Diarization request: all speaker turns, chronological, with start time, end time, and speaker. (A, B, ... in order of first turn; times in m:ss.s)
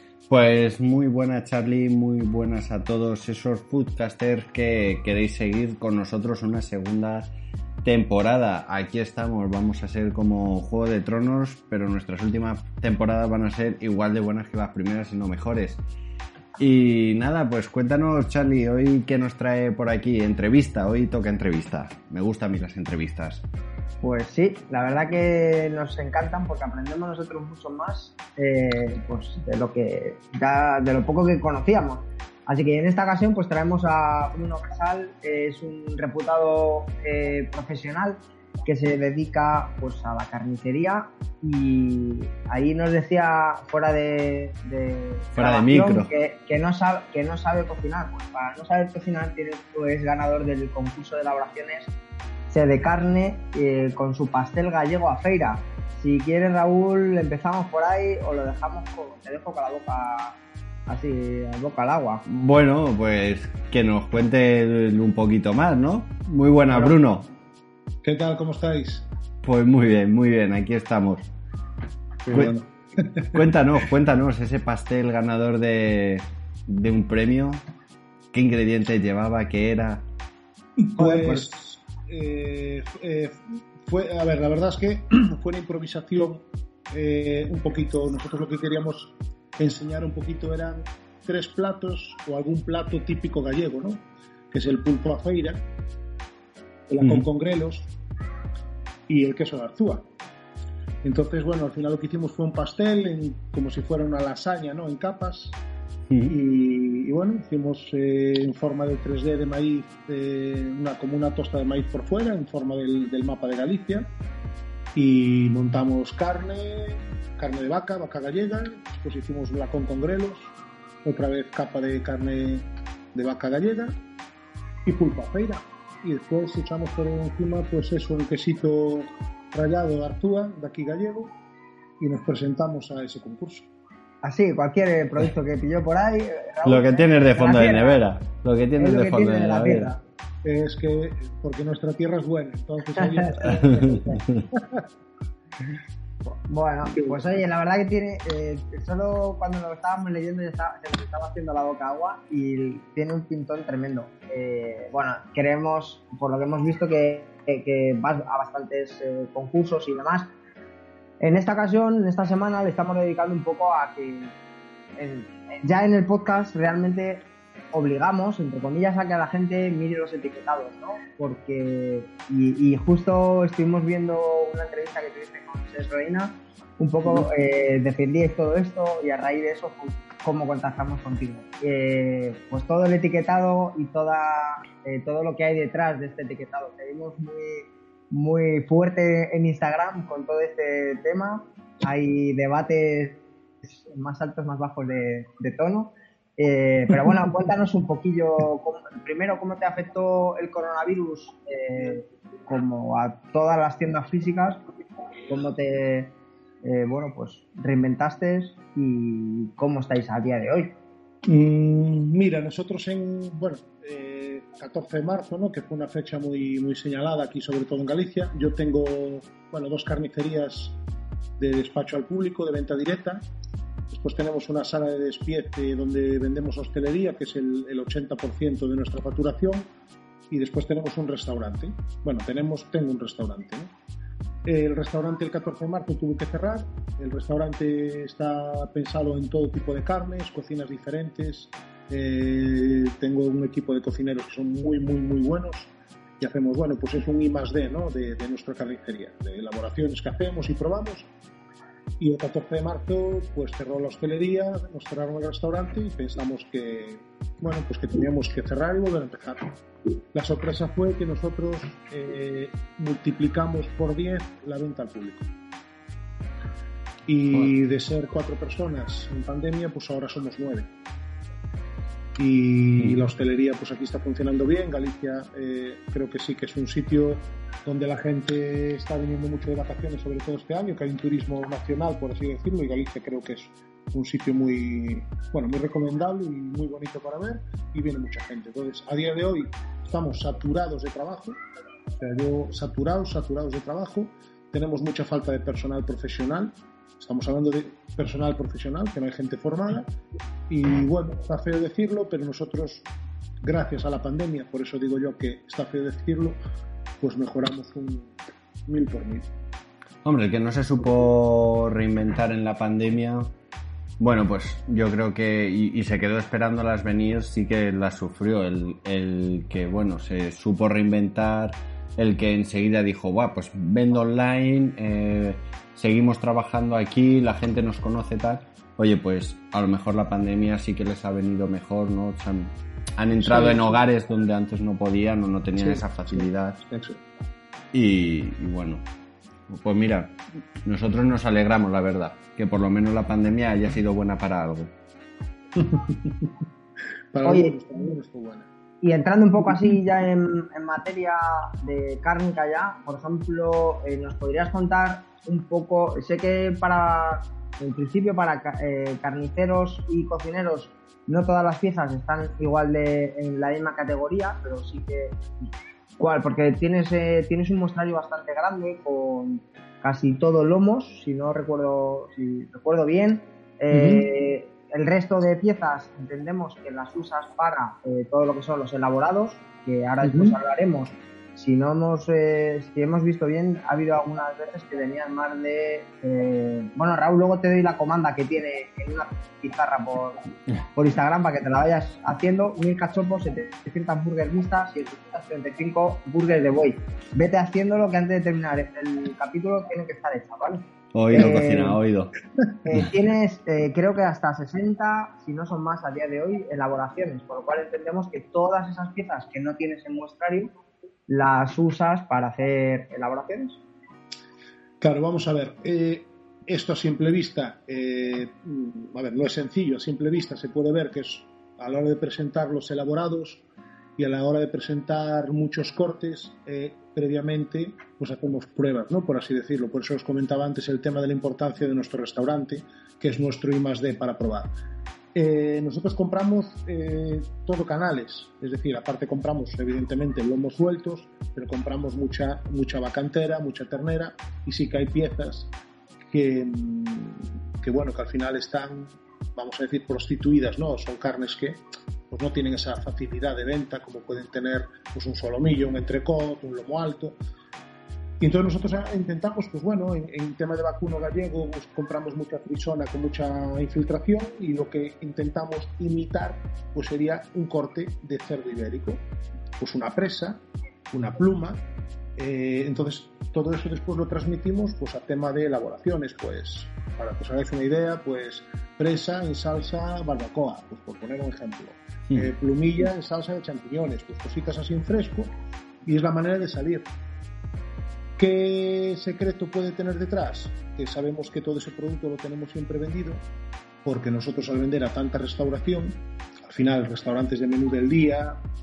0:00.3-0:07.3 A
0:07.8-0:15.8 A
0:16.6-0:23.4 A
0:24.0-0:51.9 B
0:45.3-0:46.1 A
0:52.5-1:02.2 B
1:02.3-1:07.3 A
1:06.7-1:07.0 C
1:08.0-1:09.0 C
1:09.4-1:11.2 A
1:12.3-1:13.4 C
1:13.3-1:17.6 A
1:18.3-1:20.0 A
1:20.8-1:35.6 C
1:21.0-1:21.4 A
1:36.9-1:37.9 C
1:37.0-1:37.3 A
1:39.1-1:40.1 C
1:41.0-1:45.6 C
1:46.1-1:46.4 A
1:46.3-1:54.1 C
1:55.0-2:00.5 C
2:01.0-2:03.9 C
2:04.9-2:11.3 C
2:12.0-2:13.7 C
2:14.2-2:18.0 B
2:16.6-2:19.9 A
2:18.8-2:20.0 B
2:20.4-2:24.8 C
2:23.0-2:23.8 B
2:23.6-2:24.4 A
2:26.5-2:40.3 B
2:26.9-2:27.2 C
2:41.2-2:44.3 B
2:45.0-3:24.6 B
3:25.3-3:26.1 B
3:26.6-3:30.7 B
3:31.2-3:40.8 C
3:41.4-3:43.2 C
3:43.9-3:49.7 C
3:50.3-3:53.7 C
3:54.4-4:11.1 C
4:12.0-4:19.5 C
4:20.1-4:25.2 C
4:27.1-4:30.7 C
4:32.2-4:51.4 C
4:32.8-4:33.0 A
4:52.0-4:59.9 C
5:00.5-5:02.9 C
5:03.4-5:06.4 C
5:07.0-5:08.1 C
5:08.7-5:09.3 C
5:10.0-5:13.3 A
5:14.0-5:36.6 A
5:33.2-5:33.8 C
5:35.6-5:37.0 C
5:37.7-5:38.8 A
5:39.5-5:44.7 A
5:45.6-5:46.2 C
5:47.1-5:48.5 C
5:47.2-5:47.6 B
5:48.8-6:05.2 B
6:06.0-6:30.2 B
6:13.7-6:14.1 C
6:20.0-6:20.4 C
6:30.8-6:41.8 B
6:40.9-6:42.1 A
6:42.6-6:50.5 B
6:51.1-6:53.6 B
6:54.8-7:03.4 C
7:04.0-7:14.5 C
7:15.2-7:25.5 C
7:26.1-7:37.2 C
7:38.2-7:49.0 C
7:49.6-7:50.4 C
7:50.9-7:51.6 C
7:52.2-8:05.3 C
8:05.8-8:06.9 C
8:08.2-8:13.2 C
8:13.8-8:18.4 C